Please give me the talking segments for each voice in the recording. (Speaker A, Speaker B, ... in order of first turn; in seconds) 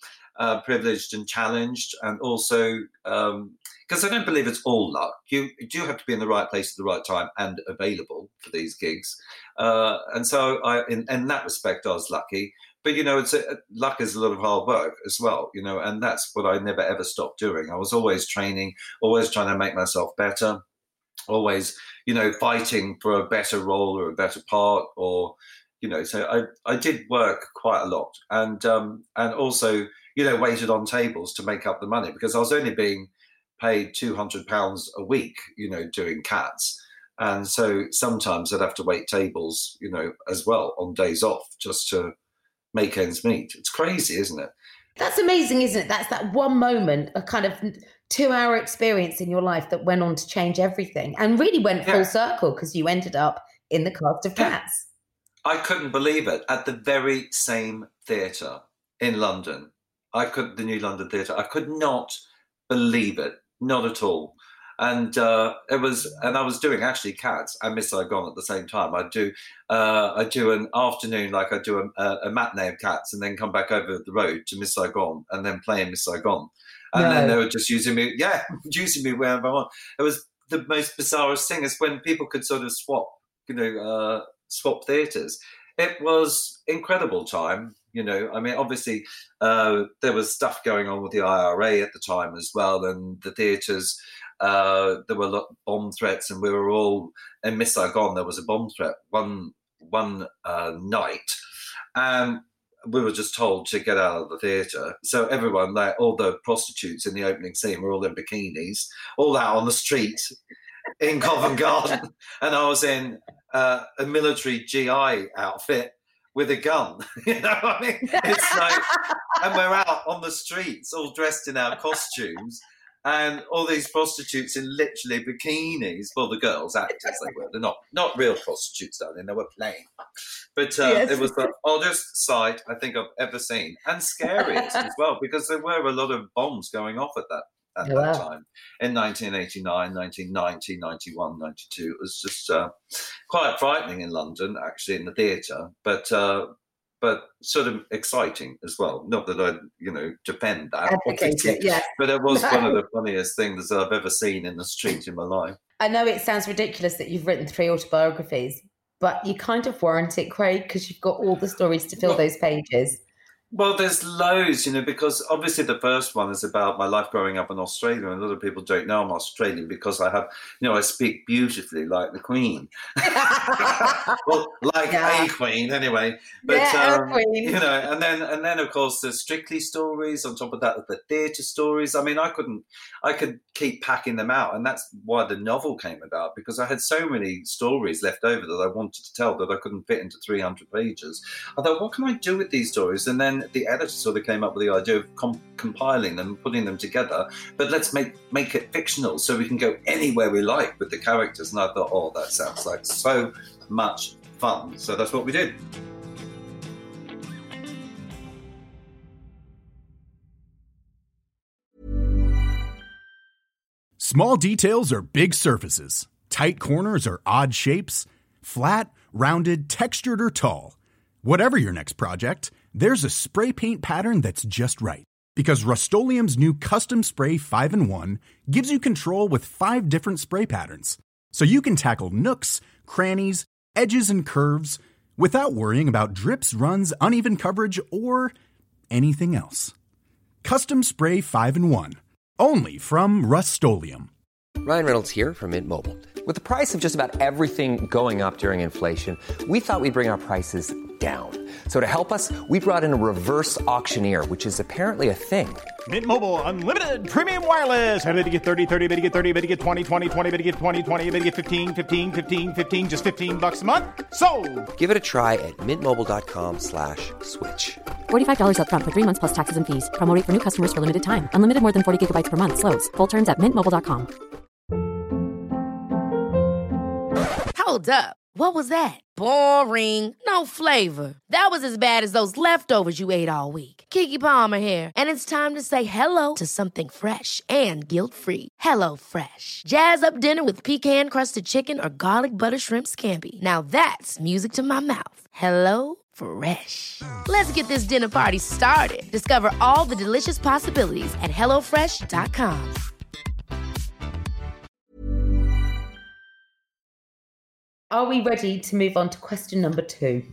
Speaker A: 0.4-20.6, 21.3-42.1, 42.7-44.5, 55.4-62.2, 62.7-101.3, 102.0-110.3, 111.0-118.8, 119.4-129.9, 130.6-142.7, 143.3-146.5, 147.0-155.6, 163.5-205.6
Speaker B: 45.0-54.9, 76.9-77.4, 118.1-119.3, 130.8-131.5, 134.3-134.7, 137.8-138.2, 150.9-152.8, 155.8-163.0, 173.0-174.2, 174.9-175.3, 176.5-177.6, 307.9-310.2
Speaker C: 214.0-238.3, 238.9-239.7, 240.4-244.1
Speaker D: 244.6-255.7, 264.8-267.8
Speaker E: 255.9-264.7
Speaker F: 268.1-274.1
Speaker G: 277.5-302.8